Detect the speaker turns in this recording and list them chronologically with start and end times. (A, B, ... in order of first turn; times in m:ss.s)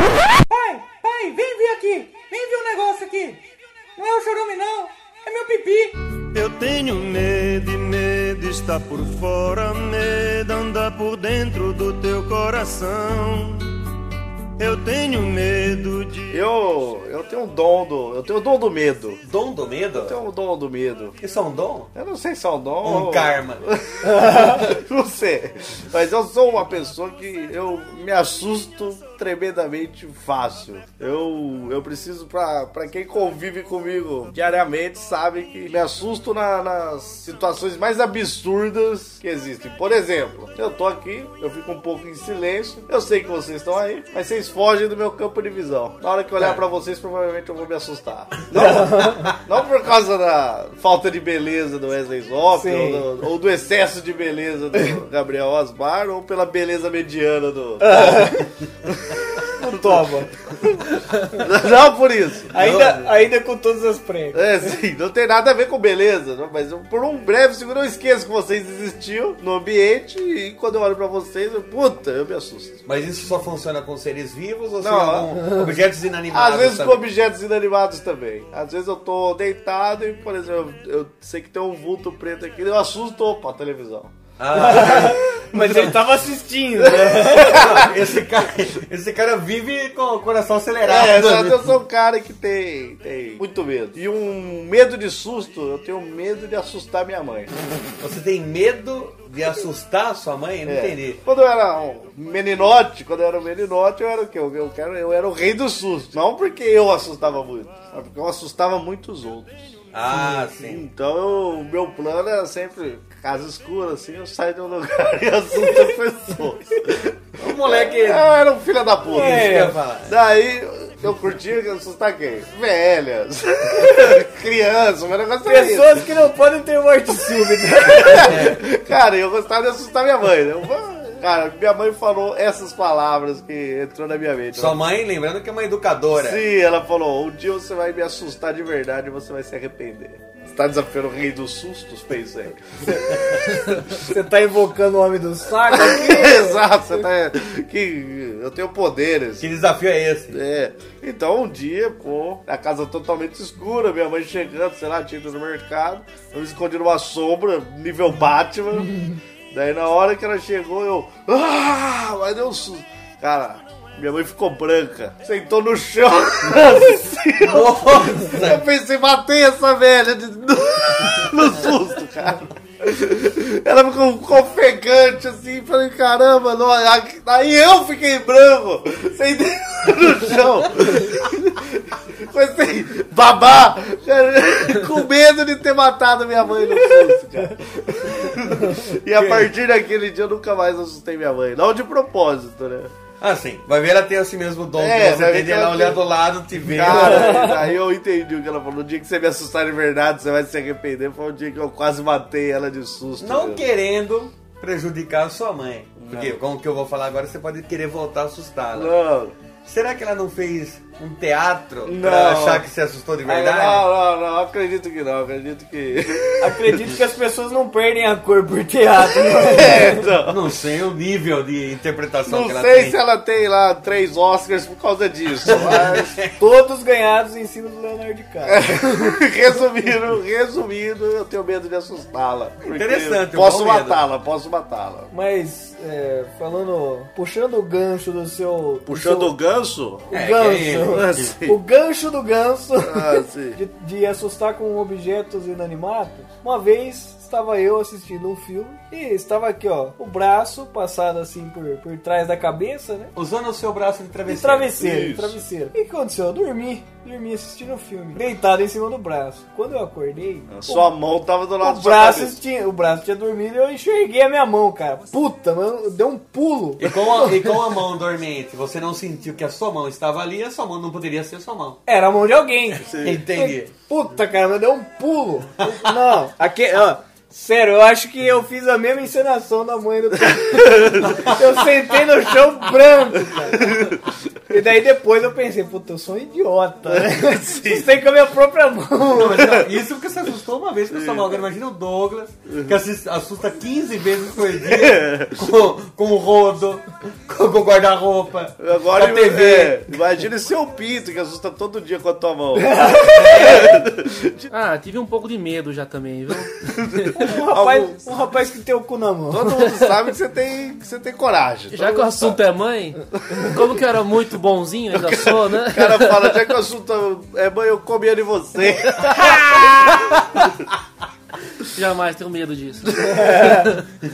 0:00.5-0:03.3 A
0:04.0-0:05.9 A
0:06.3-0:13.8 B
0:14.6-0:16.4 B
0:16.3-0:19.2 C
0:19.2-0:20.2 D
0:20.0-0:21.2 C
0:21.2-0:21.9 D
0:21.9-1:02.5 C
0:22.8-0:23.6 D
0:24.2-0:24.5 E
0:48.5-0:49.3 E
0:52.5-0:53.0 E
0:57.8-0:58.5 E
0:59.6-1:00.3 E
1:02.5-1:04.7 E
1:02.5-1:03.2 D
1:04.3-1:12.8 C
1:12.8-1:17.0 D
1:14.8-1:15.6 C
1:16.3-1:25.9 C
1:24.4-1:25.2 D
1:24.5-1:27.7 E
1:26.8-1:27.9 C
1:27.3-1:31.7 D
1:30.8-1:37.5 C
1:38.0-1:41.2 D
1:40.6-2:06.0 C
1:49.9-1:50.8 D
1:57.4-1:58.3 D
1:59.1-2:00.1 D
1:59.1-1:59.7 E
2:05.4-2:08.3 E
2:07.8-2:14.8 C
2:08.1-2:08.6 D
2:14.5-2:16.4 D
2:16.1-2:23.9 C
2:23.9-2:26.7 E
2:25.6-2:29.5 C
2:29.4-2:30.4 D
2:30.3-3:12.9 C
2:47.4-2:48.6 D
3:09.2-3:09.5 D
3:13.2-3:17.6 D
3:14.8-3:16.0 C
3:16.6-3:23.6 C
3:16.9-3:17.5 E
3:23.2-3:28.9 D
3:26.0-3:26.4 C
3:28.7-3:29.3 C
3:29.6-3:33.8 D
3:31.8-3:32.6 C
3:33.2-3:36.8 C
3:36.4-3:40.0 E
3:39.3-3:40.4 C
3:39.6-3:43.0 D
3:42.3-3:46.2 C
3:45.4-3:46.3 D
3:46.4-3:49.2 E
3:48.5-3:55.1 C
3:52.6-3:54.0 D
3:55.1-3:59.3 E
3:58.8-4:00.1 C
4:00.1-4:13.1 E
4:00.1-4:01.3 D
4:00.9-4:01.6 C
4:02.8-4:03.6 C
4:13.1-4:14.8 D
4:14.3-4:20.9 E
4:14.7-4:15.4 C
4:20.5-4:22.4 C
4:21.6-4:27.5 E
4:26.8-4:31.8 D
4:31.8-4:43.9 E
4:32.8-4:33.2 C
4:32.9-4:33.7 D
4:40.5-4:41.2 C
4:43.7-4:43.9 C
4:44.5-4:49.5 E
4:46.9-4:47.9 C
4:49.1-4:59.9 D
4:50.9-4:51.4 C
4:52.5-4:52.7 C
4:54.6-4:55.4 C
4:58.6-5:04.4 C
5:02.6-5:03.7 E
5:04.5-5:07.2 F
5:06.7-5:08.0 C
5:07.1-5:09.5 E
5:09.3-5:12.4 C
5:11.7-5:16.4 F
5:14.9-5:20.4 C
5:21.6-5:23.8 F
5:23.1-5:23.6 E